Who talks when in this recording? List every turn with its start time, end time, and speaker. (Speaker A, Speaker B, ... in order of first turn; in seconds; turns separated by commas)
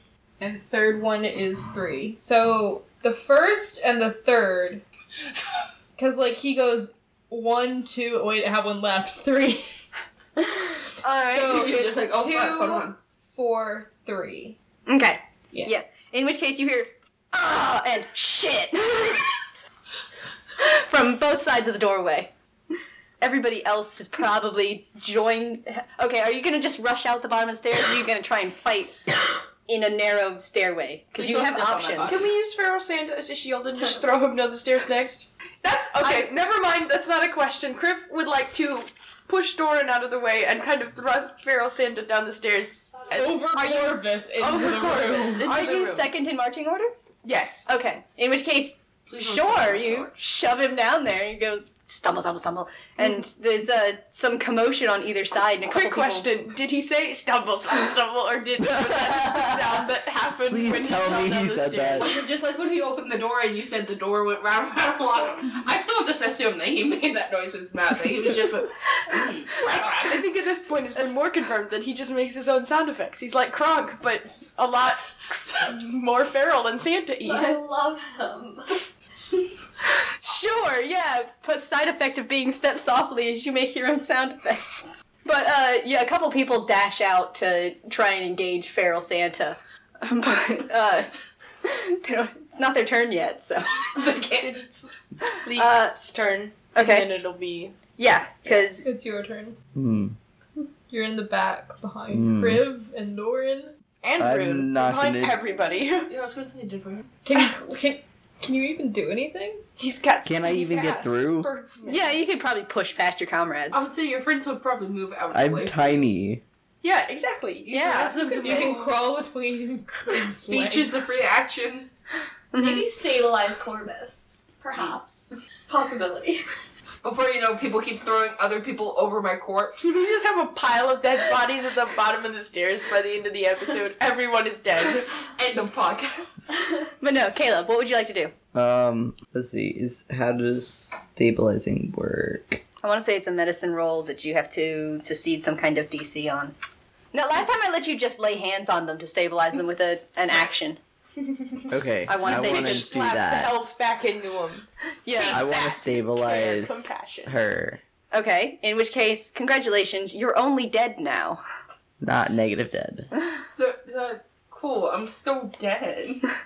Speaker A: 0.4-4.8, Speaker A: 6.0-9.7, Speaker A: 10.4-10.6, Speaker B: 11.0-11.8, Speaker A: 11.2-14.6, Speaker C: 11.4-12.9, Speaker B: 14.9-19.3, Speaker B: 20.6-22.3, Speaker B: 23.2-29.0, Speaker B: 29.6-32.2, Speaker C: 31.1-32.3, Speaker D: 32.0-46.1, Speaker B: 36.0-36.3, Speaker E: 42.9-43.3, Speaker A: 43.1-45.5, Speaker B: 43.6-43.9, Speaker B: 45.4-46.9, Speaker D: 47.2-47.7, Speaker B: 47.6-56.3, Speaker C: 49.1-50.1, Speaker D: 55.6-62.2, Speaker F: 58.6-59.9, Speaker F: 60.5-62.1, Speaker C: 62.0-70.2, Speaker D: 69.8-77.6, Speaker E: 77.2-78.8, Speaker B: 80.2-91.1, Speaker B: 91.6-93.7, Speaker C: 93.9-94.5, Speaker D: 94.0-94.9, Speaker D: 95.4-97.8, Speaker B: 95.5-96.0, Speaker B: 96.7-97.1, Speaker B: 98.0-98.8, Speaker A: 98.8-99.6, Speaker F: 99.7-100.2, Speaker A: 100.9-103.7, Speaker F: 102.1-102.7, Speaker D: 104.0-106.1, Speaker F: 104.2-105.4, Speaker C: 106.1-107.1, Speaker A: 107.2-109.6, Speaker D: 109.8-112.1, Speaker F: 110.2-111.5, Speaker A: 111.4-111.7, Speaker B: 111.8-113.9, Speaker C: 113.7-116.0, Speaker F: 115.3-116.4, Speaker D: 116.8-118.7, Speaker C: 117.6-118.9, Speaker B: 117.7-118.2, Speaker A: 118.2-121.2, Speaker C: 120.4-121.9, Speaker B: 122.5-122.8, Speaker E: 122.6-126.4, Speaker C: 127.0-129.9, Speaker D: 129.8-135.2, Speaker C: 135.3-136.2, Speaker B: 137.0-138.3, Speaker F: 138.5-142.6, Speaker B: 142.8-146.5, Speaker B: 147.1-150.8, Speaker F: 151.7-153.5, Speaker B: 152.1-153.0, Speaker D: 152.2-157.3, Speaker B: 155.1-155.5, Speaker F: 155.3-157.8, Speaker B: 158.1-161.4, Speaker F: 162.0-163.1, Speaker C: 163.5-166.2